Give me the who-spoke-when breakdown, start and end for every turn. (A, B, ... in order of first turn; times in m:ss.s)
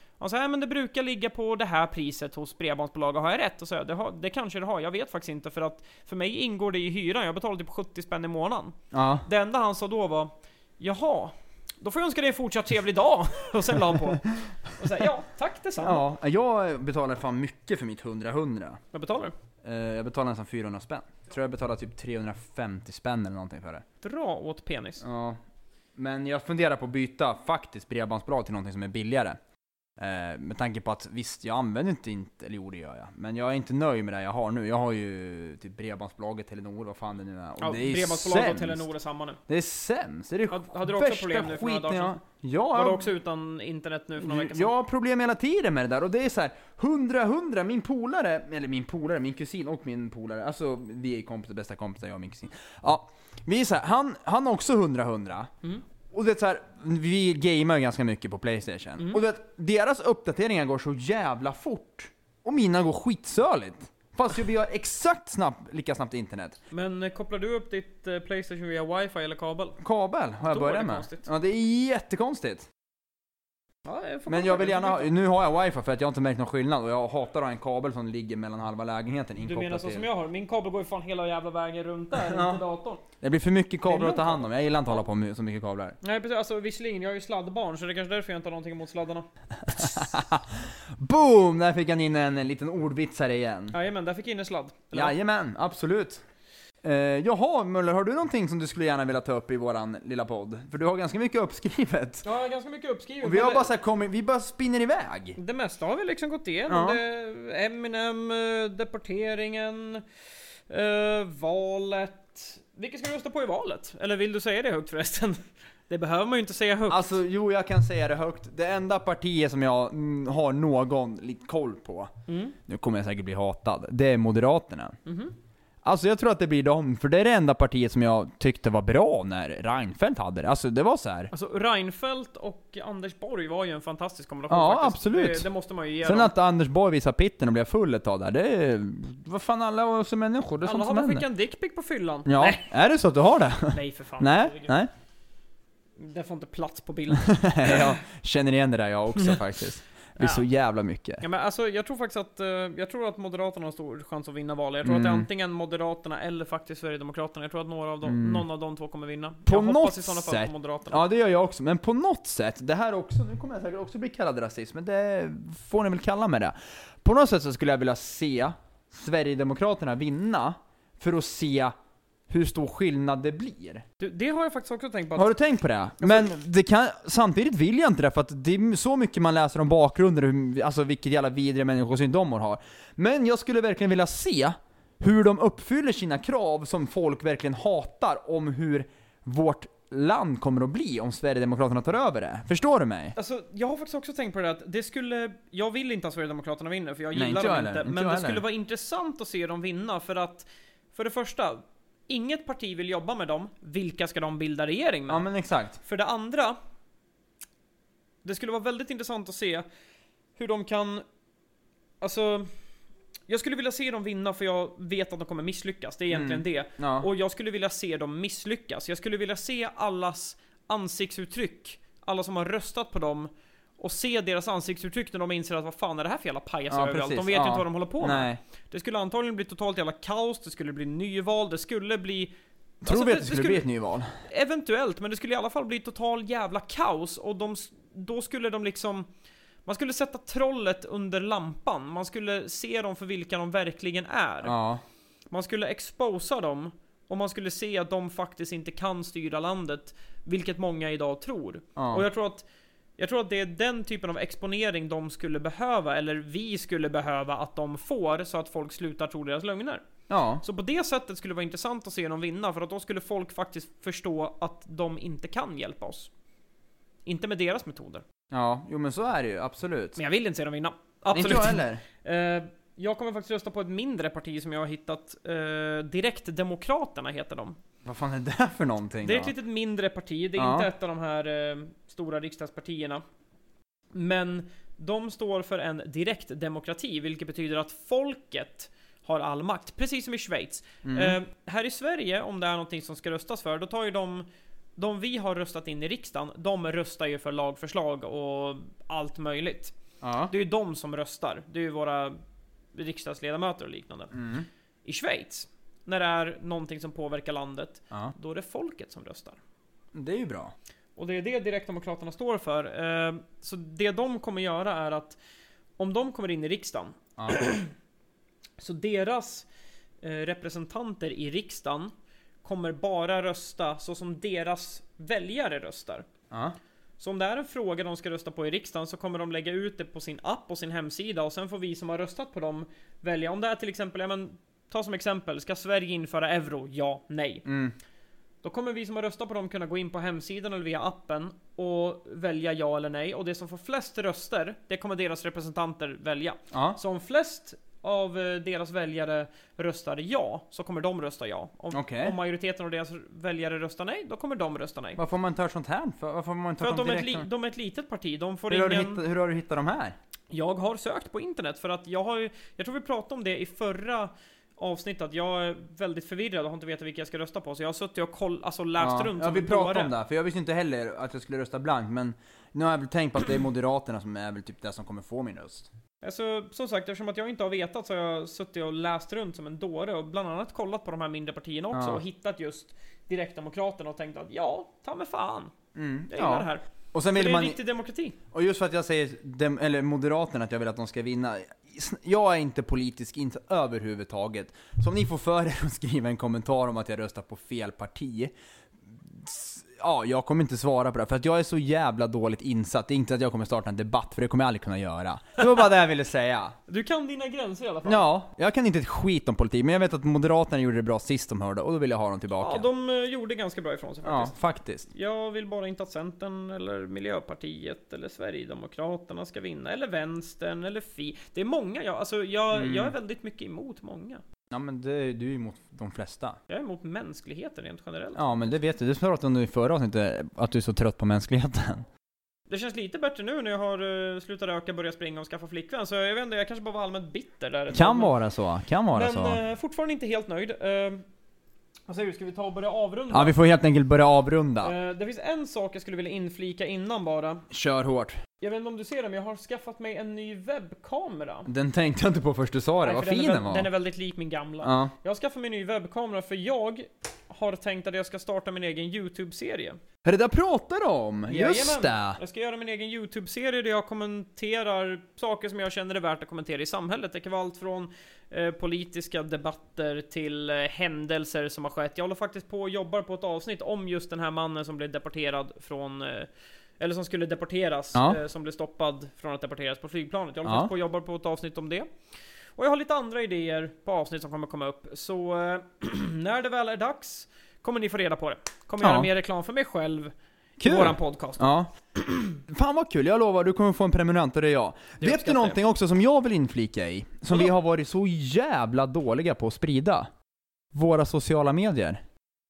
0:00.2-0:16.0 A
0:08.9-0:09.3 B
0:15.8-0:18.8 B
0:18.9-0:19.4 A
0:19.6-0:23.8 B
0:24.0-0:25.0 A
0:25.0-0:25.4 B
0:26.0-0:29.4 B
0:30.0-0:38.9 B
0:37.6-0:39.4 A
0:39.5-0:43.1 B
0:40.5-0:42.2 A
0:42.7-0:44.7 A
0:44.2-0:55.5 B
0:56.1-1:06.6 B
1:06.7-1:09.8 A
1:09.8-1:12.7 B
1:10.5-1:11.3 A
1:13.8-1:15.1 A
1:14.3-1:20.1 B
1:19.4-1:23.0 A
1:22.2-1:22.6 B
1:23.2-1:26.0 B
1:23.9-1:25.0 A
1:26.0-1:29.3 A
1:29.7-1:33.8 B
1:33.7-1:35.2 A
1:34.9-1:36.2 B
1:36.8-1:42.2 B
1:42.2-1:43.7 A
1:43.2-1:45.4 B
1:45.4-1:50.0 A
1:46.7-1:47.0 B
1:50.7-1:57.2 A
1:56.9-2:02.1 B
2:02.3-2:02.6 A
2:02.6-2:05.0 B
2:05.0-2:05.4 A
2:05.8-2:11.3 B
2:11.3-2:16.3 A
2:14.5-2:15.5 B
2:16.0-2:21.3 B
2:20.6-2:22.6 A
2:22.3-2:24.9 B
2:23.7-2:24.8 A
2:26.0-2:28.0 A
2:27.1-2:31.2 B
2:29.2-2:29.4 A
2:30.2-2:30.5 A
2:31.2-2:41.0 A
2:34.8-2:35.3 B
2:38.0-2:38.4 B
2:39.5-2:51.7 B
2:52.3-2:53.8 B
2:54.0-2:55.3 A
2:55.2-3:13.2 B
2:56.0-2:56.3 A
3:13.2-3:25.2 A
3:17.1-3:18.4 B
3:25.1-3:25.8 B
3:25.8-3:26.6 A
3:28.2-3:29.6 A
3:30.4-3:31.0 A
3:32.0-3:32.5 A
3:33.3-3:53.7 A
3:36.1-3:37.1 B
3:46.7-3:48.4 B
3:52.8-3:54.1 B
3:54.2-3:59.1 A
3:59.7-4:04.6 A
4:04.4-4:04.8 B
4:05.3-4:12.5 A
4:11.8-4:12.0 B
4:13.0-4:19.8 A
4:20.1-4:20.4 B
4:20.4-4:26.1 A
4:27.1-4:28.0 A
4:28.3-4:30.0 B
4:30.0-4:37.6 A
4:31.1-4:31.8 B
4:37.8-4:39.4 B
4:39.0-4:43.0 A
4:40.4-4:40.7 B
4:43.9-4:54.2 A
4:50.8-4:51.2 B
4:54.8-4:59.8 A
5:00.0-5:00.3 B
5:00.3-5:02.2 A
5:02.7-5:04.1 A
5:04.1-5:04.5 B
5:04.8-5:09.4 A
5:10.0-5:10.5 B
5:11.0-5:15.2 A
5:15.8-5:17.7 A
5:18.6-5:19.5 A
5:20.0-5:21.9 A
5:22.4-5:26.1 A
5:26.3-5:26.6 B
5:27.0-5:37.4 A
5:37.4-5:37.8 B
5:38.4-5:55.0 A
5:46.5-5:46.8 B
5:51.7-5:52.2 B
5:55.0-5:57.3 B
5:56.6-5:59.0 A
5:58.5-6:00.0 B
6:00.3-6:09.9 A
6:08.8-6:15.7 B
6:16.0-6:25.5 A
6:21.7-6:22.0 B
6:25.8-6:27.6 B
6:26.1-6:28.2 A
6:28.3-6:38.3 B
6:38.9-6:46.6 B
6:46.7-6:48.1 A
6:47.8-6:52.7 B
6:52.4-6:54.3 A
6:54.0-6:54.9 B
6:54.9-7:04.2 A
7:02.5-7:02.9 B
7:04.5-7:06.4 B
7:06.5-7:08.6 A
7:08.2-7:11.9 B
7:12.5-7:18.2 A
7:17.7-7:19.4 B
7:18.9-7:21.0 A
7:21.9-7:23.4 A
7:23.1-7:24.8 B
7:24.6-7:27.4 A
7:27.5-7:28.2 B
7:28.4-7:31.5 A
7:31.5-7:33.7 B
7:32.8-7:39.8 A
7:34.6-7:34.9 B
7:40.0-7:42.2 B
7:41.3-8:01.9 A
7:57.9-7:58.2 B
8:00.4-8:00.7 B
8:02.6-8:11.5 A
8:08.8-8:09.1 B
8:10.6-8:11.7 B
8:12.3-8:20.1 B
8:15.0-8:15.6 A
8:20.7-8:22.0 B